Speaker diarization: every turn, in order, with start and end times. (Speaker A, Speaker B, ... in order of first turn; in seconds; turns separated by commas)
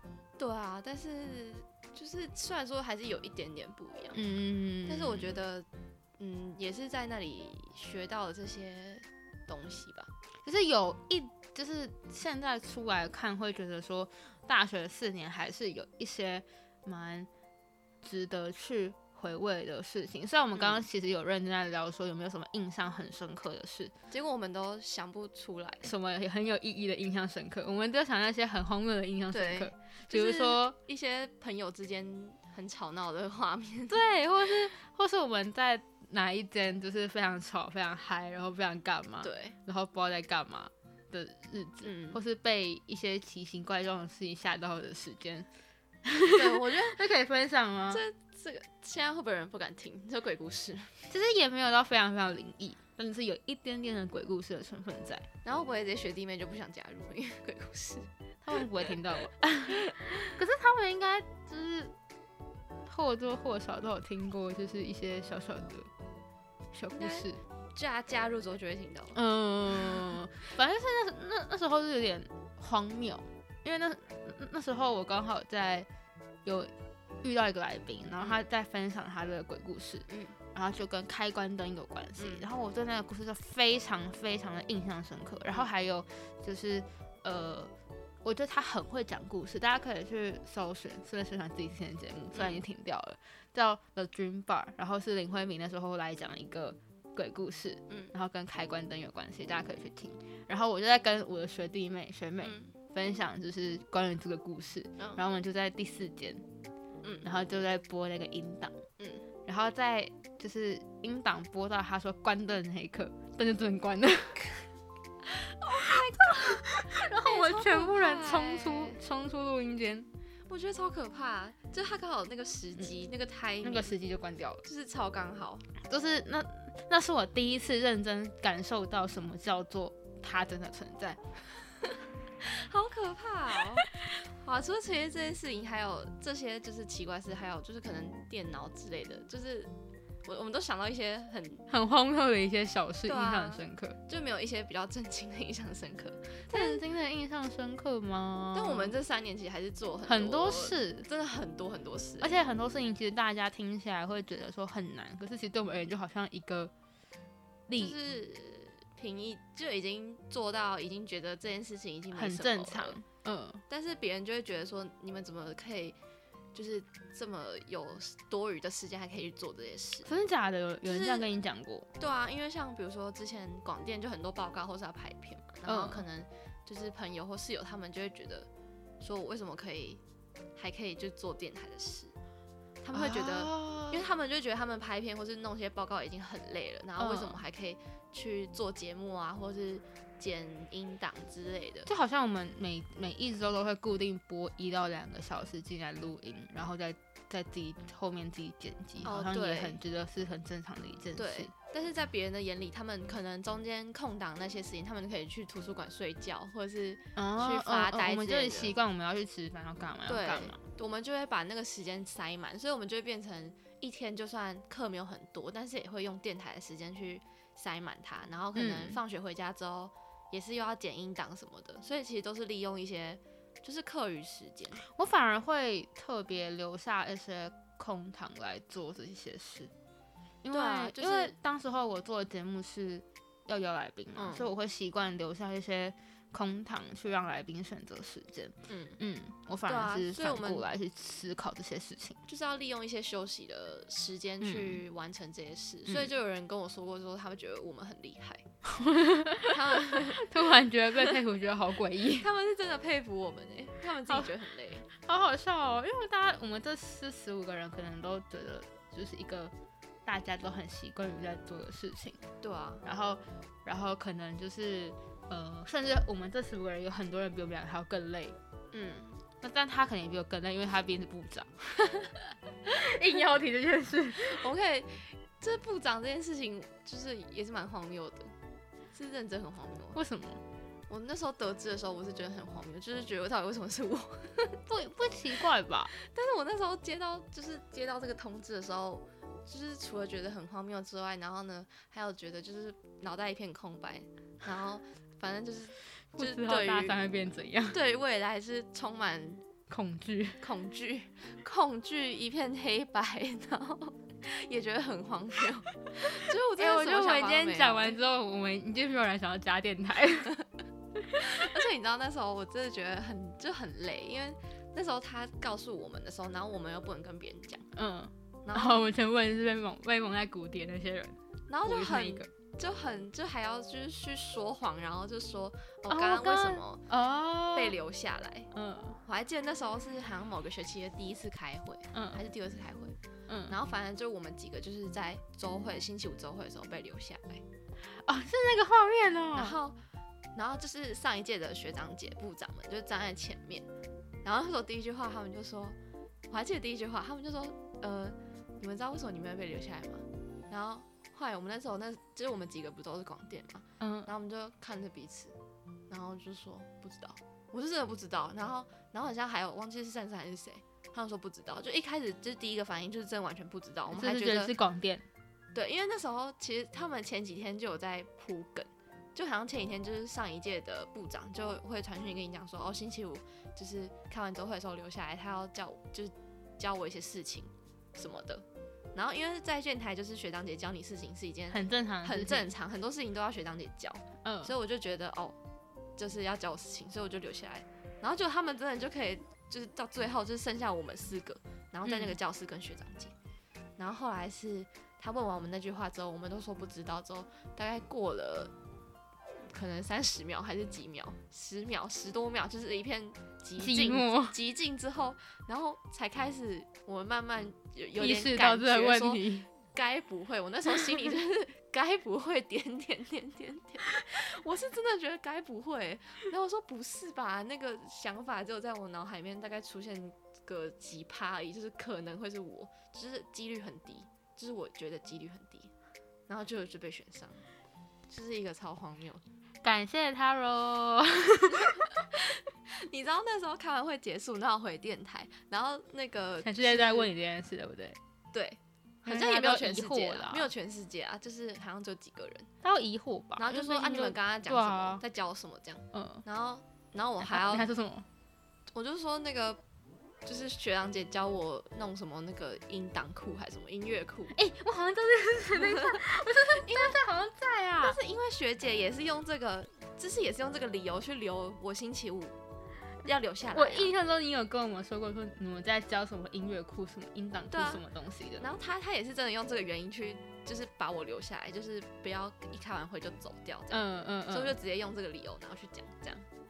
Speaker A: 0.4-4.2, Speaker B: 4.1-5.3, Speaker A: 4.9-5.7, Speaker A: 6.2-10.1, Speaker B: 10.4-17.3, Speaker B: 18.0-23.9, Speaker A: 20.6-20.8, Speaker A: 24.1-25.9, Speaker B: 25.8-30.8, Speaker A: 29.3-34.0, Speaker B: 33.9-45.5, Speaker A: 39.2-39.6, Speaker A: 41.8-42.2, Speaker B: 46.0-48.0, Speaker A: 46.3-47.0, Speaker A: 47.9-51.1, Speaker B: 51.1-55.3, Speaker A: 55.5-59.0, Speaker B: 58.4-61.9, Speaker A: 59.7-60.2, Speaker B: 62.9-65.9, Speaker B: 66.7-67.4, Speaker A: 66.9-69.2, Speaker B: 69.1-75.9, Speaker A: 69.7-70.1, Speaker B: 76.5-76.7, Speaker B: 77.2-87.7, Speaker A: 80.1-80.4, Speaker A: 82.2-82.5, Speaker B: 88.2-106.4, Speaker A: 92.3-92.6, Speaker A: 102.4-102.7, Speaker A: 107.0-107.3, Speaker B: 107.2-108.8, Speaker A: 109.0-109.3, Speaker B: 109.5-114.5, Speaker A: 115.3-119.0, Speaker B: 115.7-120.1, Speaker A: 120.5-123.9, Speaker B: 123.6-124.6, Speaker A: 124.6-125.7, Speaker B: 125.8-131.2, Speaker A: 132.4-139.7, Speaker A: 140.2-141.7, Speaker B: 141.7-144.0, Speaker A: 143.1-146.8, Speaker B: 146.5-148.9, Speaker A: 148.5-152.4, Speaker B: 150.1-151.1, Speaker B: 152.2-156.7, Speaker B: 157.7-158.0, Speaker A: 157.8-163.0, Speaker B: 162.1-163.6, Speaker A: 163.7-166.0, Speaker A: 166.5-170.1, Speaker B: 170.1-171.9, Speaker A: 170.8-171.3, Speaker A: 172.0-178.5, Speaker B: 175.7-176.1, Speaker A: 179.0-180.0, Speaker A: 180.6-182.1, Speaker A: 182.8-191.9, Speaker B: 182.9-184.1, Speaker B: 187.0-187.4, Speaker B: 191.9-201.5, Speaker A: 199.0-199.8, Speaker A: 201.2-208.7, Speaker B: 207.2-210.6, Speaker A: 210.1-224.8, Speaker B: 218.6-219.0, Speaker B: 224.8-229.7, Speaker B: 230.4-242.2, Speaker A: 230.5-231.3, Speaker A: 234.2-234.5, Speaker A: 238.7-239.0, Speaker A: 239.7-240.7, Speaker A: 242.3-248.5, Speaker B: 244.4-244.8, Speaker B: 248.7-252.3, Speaker A: 249.5-250.3, Speaker A: 252.2-254.9, Speaker B: 254.9-259.5, Speaker B: 260.1-262.2, Speaker A: 262.4-262.8, Speaker B: 262.8-268.4, Speaker A: 268.7-269.2, Speaker B: 269.4-271.9, Speaker B: 272.7-274.4, Speaker A: 274.2-278.3, Speaker A: 278.9-280.0, Speaker B: 279.9-280.4, Speaker A: 280.9-284.6, Speaker B: 284.7-285.9, Speaker A: 286.0-297.0, Speaker B: 296.1-297.8, Speaker A: 297.7-299.4, Speaker B: 299.7-300.4, Speaker A: 300.4-308.0, Speaker B: 306.6-310.4, Speaker B: 311.0-311.6, Speaker A: 311.2-317.7, Speaker B: 317.7-322.3, Speaker A: 318.4-318.9, Speaker A: 321.5-326.8, Speaker B: 325.9-327.8, Speaker A: 327.5-328.5, Speaker B: 328.5-329.0, Speaker A: 329.1-332.9, Speaker B: 331.9-332.2, Speaker B: 333.3-333.6, Speaker A: 333.5-337.4, Speaker B: 337.9-339.6, Speaker A: 339.4-339.8, Speaker A: 340.4-343.7, Speaker A: 344.2-345.8, Speaker A: 346.3-355.4, Speaker B: 353.8-354.1, Speaker A: 355.9-364.5, Speaker B: 363.9-365.1, Speaker A: 365.5-385.4, Speaker B: 381.5-382.5, Speaker B: 384.2-384.5, Speaker A: 386.0-393.1, Speaker B: 391.9-392.2, Speaker A: 393.8-398.5, Speaker A: 399.5-425.7, Speaker B: 403.6-404.4, Speaker B: 408.0-409.5, Speaker A: 426.3-427.4, Speaker A: 428.1-429.2, Speaker B: 429.6-431.9, Speaker A: 431.6-437.1, Speaker B: 436.4-438.0, Speaker A: 438.3-442.5, Speaker B: 439.1-440.5, Speaker B: 442.6-445.0, Speaker A: 443.4-447.7, Speaker B: 445.9-446.2, Speaker B: 447.2-448.1, Speaker A: 448.7-449.6, Speaker A: 450.2-454.4, Speaker B: 454.3-458.0, Speaker A: 455.6-456.0, Speaker A: 456.6-457.0, Speaker A: 457.8-462.4, Speaker A: 463.0-463.9, Speaker B: 463.5-468.5, Speaker A: 467.5-467.8, Speaker A: 468.4-476.3, Speaker B: 473.7-474.6